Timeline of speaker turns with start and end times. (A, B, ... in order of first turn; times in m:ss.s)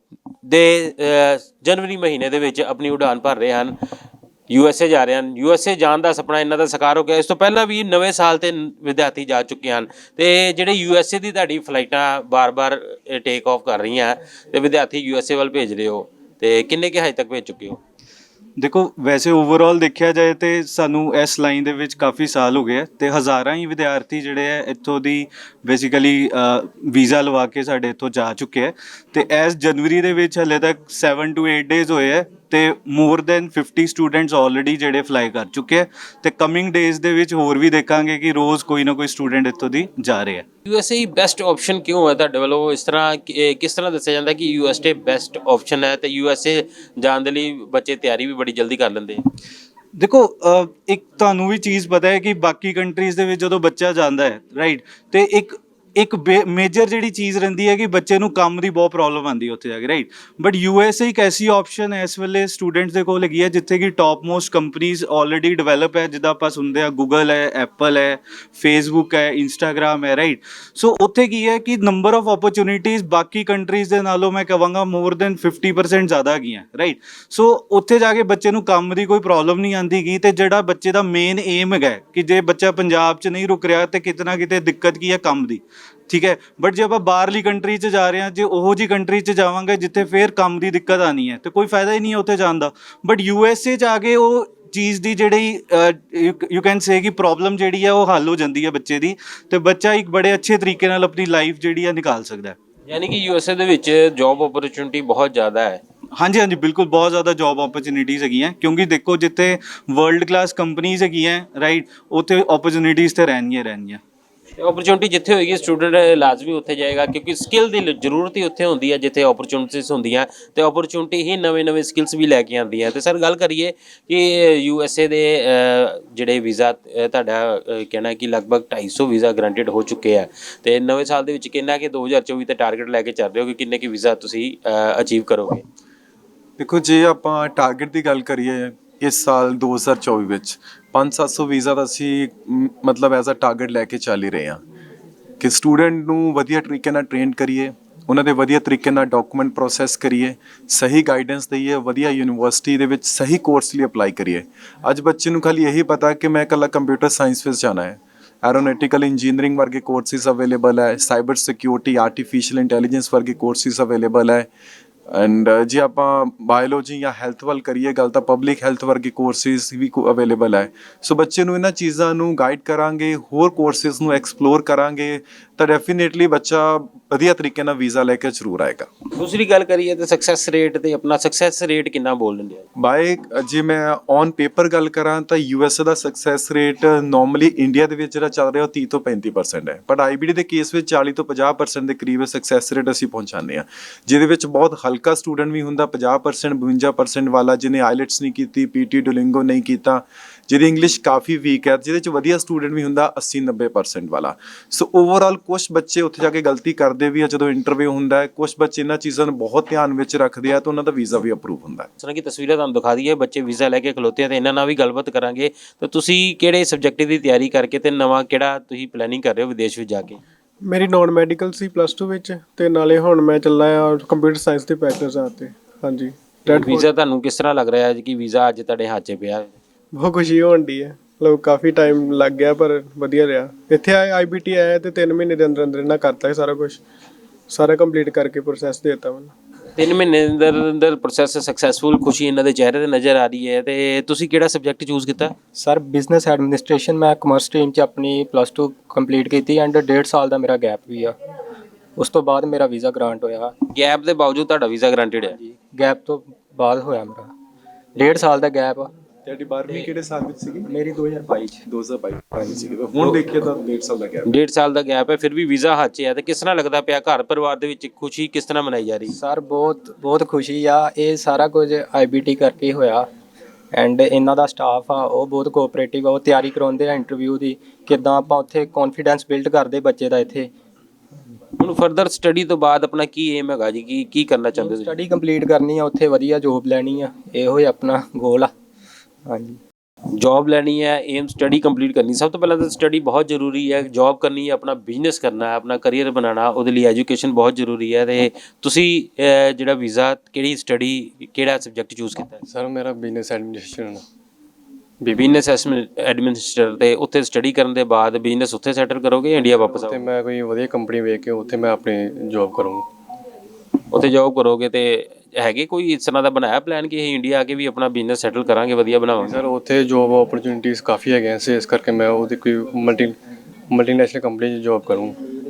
0:00.4-0:03.8 A
0:04.5-0:17.8 A
0:18.6-0:40.4 B
0:40.6-0:49.2 A
0:50.0-1:42.6 B
1:42.9-1:45.8 A
1:46.2-1:54.0 B
1:54.6-2:15.6 A
2:16.6-2:24.6 C
2:25.4-2:44.5 C
2:45.1-2:58.9 C
2:59.2-3:02.6 A
3:02.8-3:31.9 C
3:32.0-3:40.2 A
3:40.6-3:46.9 D
3:46.5-3:49.5 A
3:49.9-3:56.8 D
3:57.5-3:59.3 D
3:59.8-4:05.3 A
4:05.5-4:11.1 E
4:12.0-4:13.5 E
4:13.7-4:15.4 A
4:15.4-4:17.3 E
4:18.0-4:18.9 E
4:19.2-4:20.7 C
4:20.6-4:21.6 E
4:21.6-4:24.3 C
4:24.3-4:29.1 A
4:29.1-4:33.0 E
4:33.7-4:40.5 E
4:41.6-4:44.9 A
4:44.6-4:48.5 E
4:49.2-4:49.6 E
4:50.2-5:02.4 A
5:02.5-5:04.0 F
5:05.1-5:10.0 A
5:09.5-5:12.8 F
5:13.9-5:19.4 A
5:19.3-5:23.2 F
5:23.7-5:25.2 F